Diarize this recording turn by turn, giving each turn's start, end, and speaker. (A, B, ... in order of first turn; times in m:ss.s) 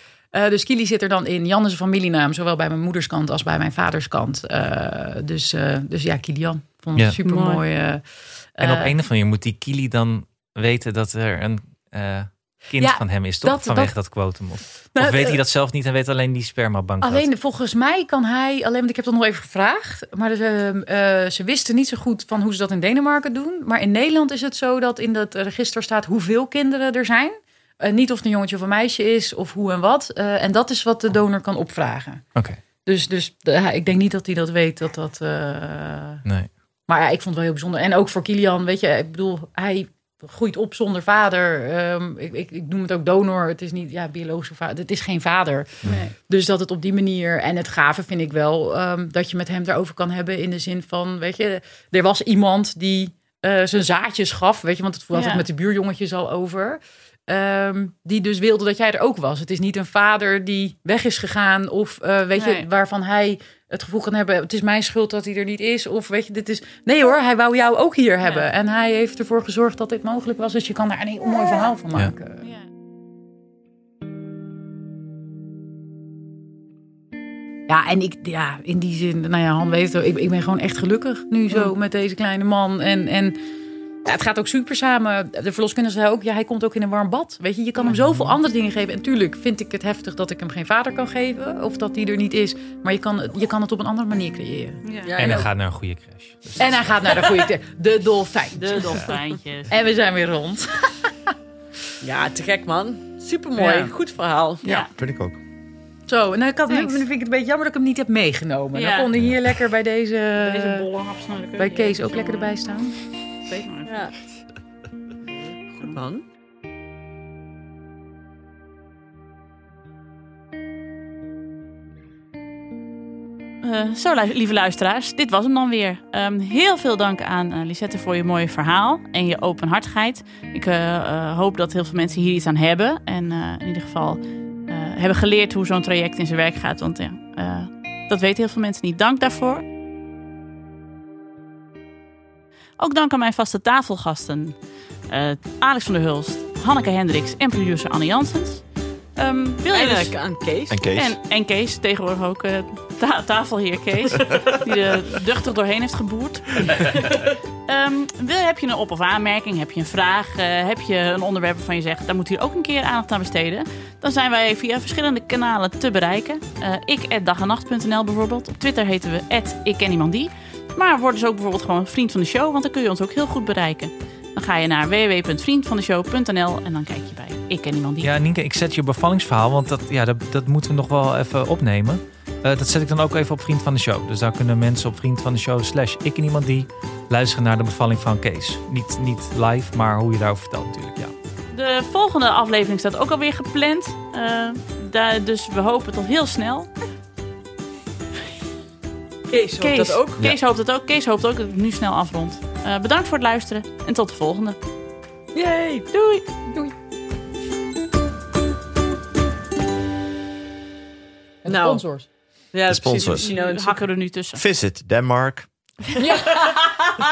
0:00.3-0:08.9 A
0:07.2-0:07.6 B
0:07.2-0:07.6 C
0:08.6-0:17.3 D
0:12.8-0:14.4 A
0:14.9-0:15.4 A
0:17.0-0:36.2 A
0:36.2-0:36.5 D
0:36.8-1:12.4 A
0:45.9-0:46.1 B
0:55.1-0:55.4 B
1:02.3-1:02.7 B
1:12.4-1:12.7 B
1:17.7-1:23.4 A
1:24.0-1:34.8 A
1:34.8-1:35.3 B
1:35.0-1:35.5 C
1:35.2-1:37.3 D
1:36.6-1:39.1 A
1:38.6-1:39.7 B
1:39.7-1:41.3 A
1:42.0-1:44.6 C
1:43.6-1:43.9 A
1:44.6-1:45.4 E
1:44.6-1:44.9 B
1:46.1-1:50.9 A
1:46.7-1:47.0 B
1:48.7-1:49.1 B
1:50.4-1:52.5 B
1:51.6-1:53.0 A
1:53.5-1:54.1 B
1:53.8-1:54.2 C
1:55.7-1:56.2 C
2:03.6-2:19.6 B
2:22.8-2:37.1 B
2:29.7-2:30.8 C
2:30.7-2:31.2 E
2:36.9-2:37.3 C
2:37.6-2:58.1 B
2:58.0-3:11.1 D
3:11.5-3:16.7 B
3:19.3-3:20.2 C
3:19.6-3:24.6 B
3:25.3-3:26.3 C
3:26.5-3:26.7 A
3:31.4-3:32.1 A
3:31.5-3:31.8 C
3:32.5-3:33.8 C
3:32.7-3:33.3 E
3:32.9-3:34.4 B
3:34.3-3:35.5 E
3:36.0-3:36.6 A
3:36.4-3:37.0 C